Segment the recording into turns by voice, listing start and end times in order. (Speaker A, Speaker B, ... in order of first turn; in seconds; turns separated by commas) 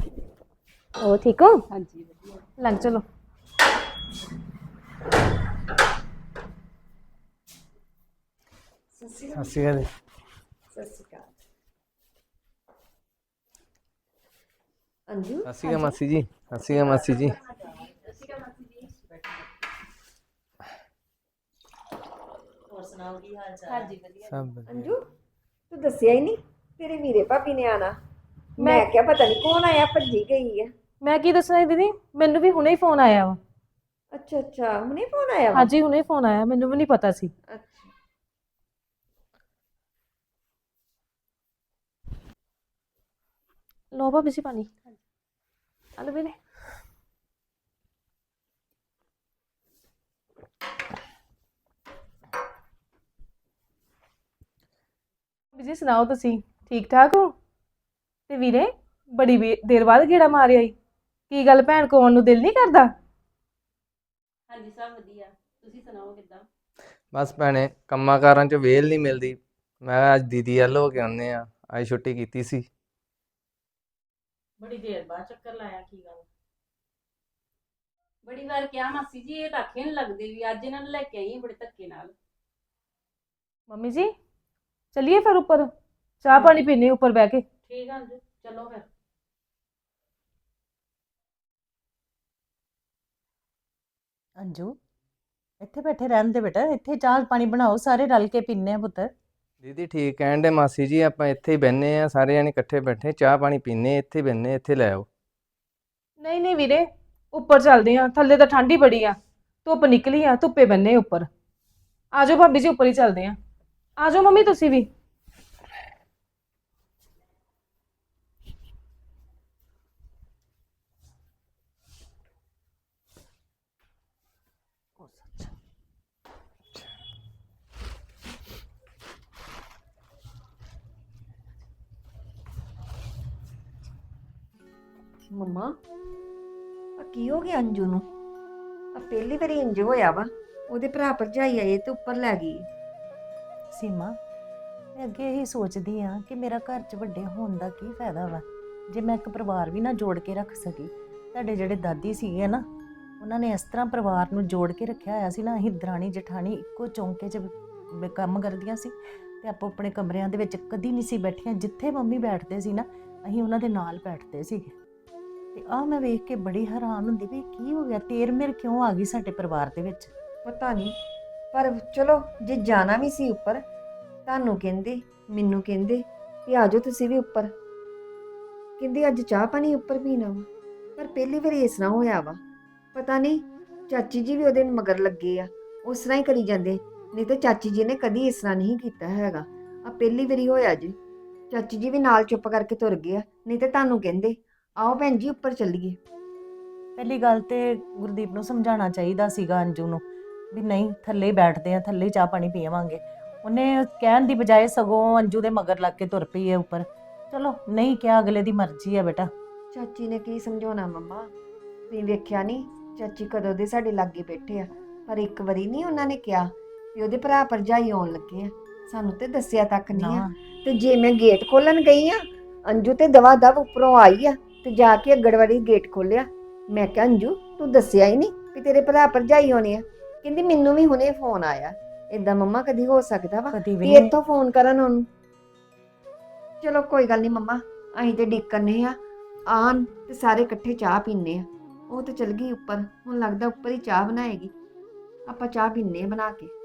Speaker A: 1.0-1.6, Speaker B: 1.8-2.1, Speaker A: 2.6-3.0, Speaker C: 9.0-9.6, Speaker D: 9.3-9.9, Speaker C: 10.7-11.3, Speaker C: 15.1-16.0, Speaker D: 15.5-17.4, Speaker E: 22.7-24.0, Speaker B: 23.7-24.4, Speaker D: 24.3-24.9, Speaker C: 24.6-25.0, Speaker C: 25.7-28.0, Speaker C: 28.6-30.7, Speaker A: 28.6-28.9, Speaker A: 31.0-33.4, Speaker C: 34.1-35.7, Speaker A: 35.5-37.3, Speaker C: 37.5-37.9, Speaker A: 43.9-44.7, Speaker A: 46.0-46.4, Speaker A: 55.5-57.3, Speaker A: 58.3-60.7, Speaker A: 61.3-62.9, Speaker B: 64.5-66.5, Speaker D: 67.1-72.7, Speaker B: 74.6-76.2, Speaker B: 78.3-82.1, Speaker A: 83.7-84.1, Speaker A: 84.9-85.7, Speaker A: 86.2-87.5, Speaker B: 87.7-88.8, Speaker E: 94.4-94.8, Speaker E: 95.6-99.1, Speaker D: 99.6-105.1, Speaker A: 106.2-111.3, Speaker A: 112.1-113.4, Speaker A: 114.0-114.9, Speaker C: 135.3-135.7, Speaker C: 137.0-138.0, Speaker C: 139.0-142.7, Speaker E: 143.7-144.2, Speaker E: 145.0-152.7, Speaker E: 153.2-164.7, Speaker E: 165.6-170.1, Speaker C: 170.4-170.9, Speaker C: 171.5-173.6, Speaker C: 174.3-177.5, Speaker C: 178.8-182.4, Speaker C: 182.9-190.9, Speaker C: 191.5-196.0, Speaker E: 197.0-209.3, Speaker C: 209.7-211.3, Speaker C: 211.9-235.1, Speaker E: 219.9-220.3, Speaker E: 233.5-234.1, Speaker C: 236.6-239.0, Speaker C: 239.5-244.5, Speaker C: 245.3-246.5